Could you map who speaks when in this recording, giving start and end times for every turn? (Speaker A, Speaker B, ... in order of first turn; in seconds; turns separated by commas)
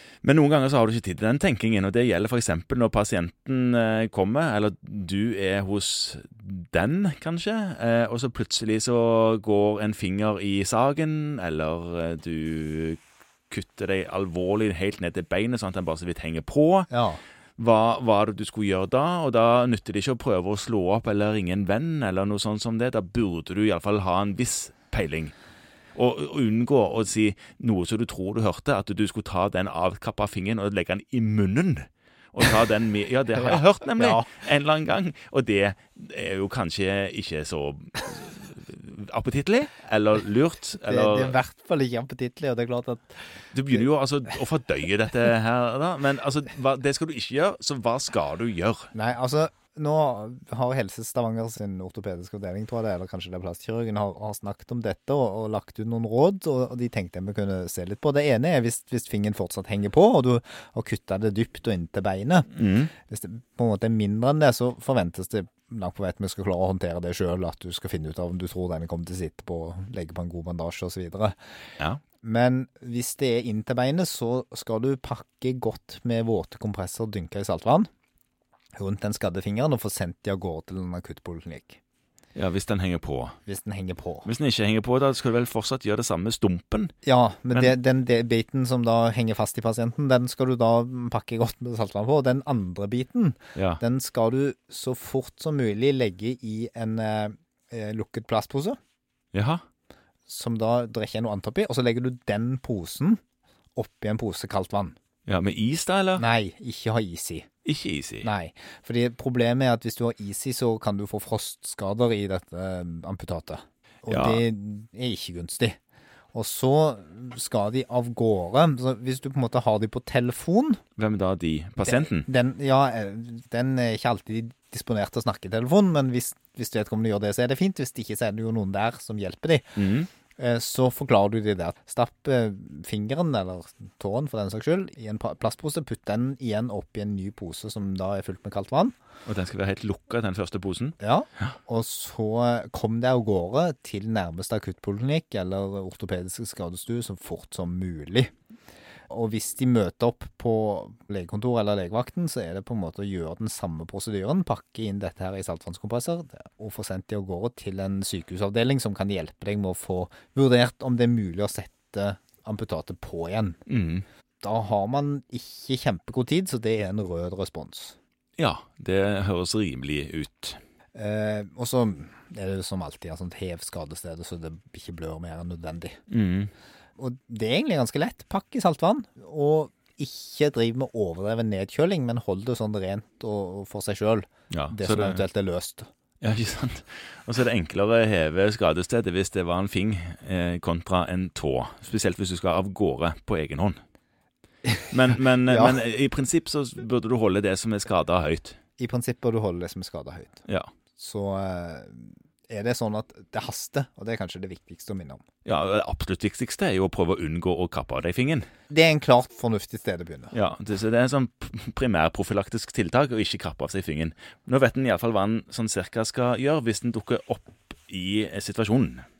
Speaker A: 0.2-16.9, Speaker B: 16.9-17.2, Speaker A: 17.6-25.3, Speaker A: 25.9-41.4, Speaker B: 33.4-34.3, Speaker B: 40.8-43.9, Speaker A: 43.5-48.9, Speaker B: 48.9-71.4, Speaker A: 62.5-62.9, Speaker B: 72.2-77.9, Speaker B: 78.8-81.8, Speaker A: 82.3-83.4, Speaker B: 83.5-84.3, Speaker A: 84.2-86.9, Speaker B: 87.0-98.8, Speaker A: 93.5-93.8, Speaker A: 99.3-99.6, Speaker B: 100.3-103.2, Speaker B: 103.8-105.0, Speaker A: 105.3-106.2, Speaker B: 106.2-107.5, Speaker A: 107.6-108.3, Speaker B: 108.2-115.8, Speaker A: 114.1-114.4, Speaker B: 116.3-120.8, Speaker A: 121.0-122.2, Speaker B: 121.8-129.8, Speaker A: 129.8-130.1, Speaker B: 130.3-138.9, Speaker A: 139.2-141.5, Speaker B: 141.0-148.3, Speaker B: 149.1-163.6, Speaker A: 163.7-164.0, Speaker B: 164.4-168.0, Speaker A: 168.4-170.6, Speaker B: 170.9-176.0, Speaker A: 176.1-176.5, Speaker B: 177.0-185.9, Speaker A: 184.5-185.2, Speaker A: 186.2-193.8, Speaker A: 194.9-198.6, Speaker B: 195.5-195.8, Speaker B: 198.8-200.4, Speaker B: 201.0-205.2, Speaker A: 205.4-208.5, Speaker B: 208.7-210.3, Speaker A: 210.3-219.0